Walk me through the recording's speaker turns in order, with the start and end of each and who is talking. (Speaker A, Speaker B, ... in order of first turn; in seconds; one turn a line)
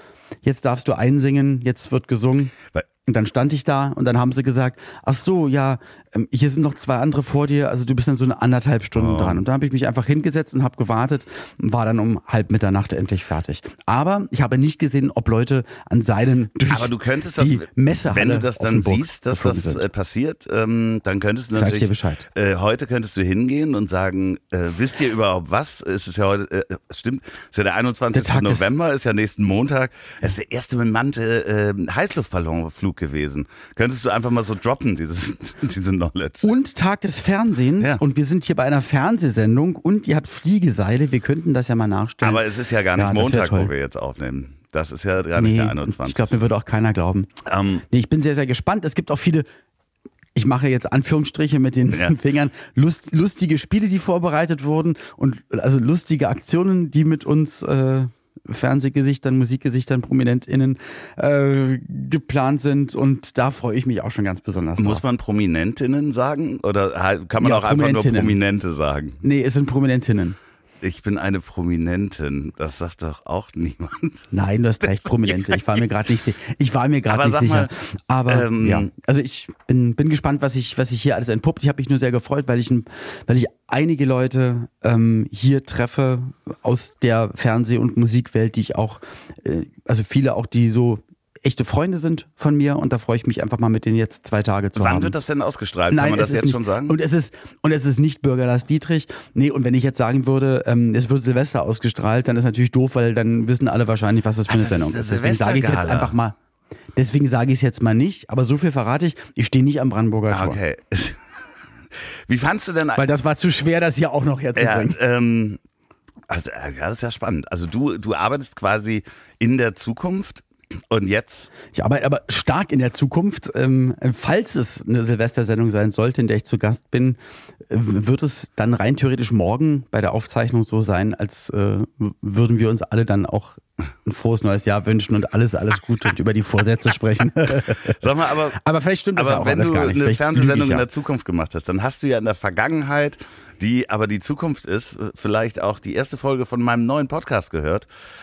Speaker A: 0.4-2.5
Speaker A: 3.0-19.9
Speaker B: 8.9-9.4
Speaker B: 16.7-36.5
Speaker A: 21.5-22.2
Speaker A: 28.1-28.7
Speaker A: 36.4-43.7
Speaker B: 42.2-46.4
Speaker A: 45.4-47.3
Speaker B: 47.4-47.8
Speaker A: 47.9-49.5
Speaker A: 50.3-65.0
Speaker B: 64.8-69.2
Speaker A: 67.4-68.4
Speaker A: 69.2-70.4
Speaker B: 70.8-74.3
Speaker A: 74.3-95.2
Speaker B: 75.2-75.8
Speaker B: 77.1-77.7
Speaker B: 78.3-78.9
Speaker B: 94.8-96.9
Speaker A: 95.9-106.4
Speaker B: 104.5-106.1
Speaker A: 107.0-110.6
Speaker B: 110.3-111.2
Speaker B: 112.3-113.0
Speaker A: 113.0-115.0
Speaker B: 114.5-115.6
Speaker B: 116.3-121.5
Speaker A: 121.7-127.2
Speaker A: 127.7-138.0
Speaker B: 137.8-138.6
Speaker A: 138.5-140.8
Speaker B: 139.2-147.9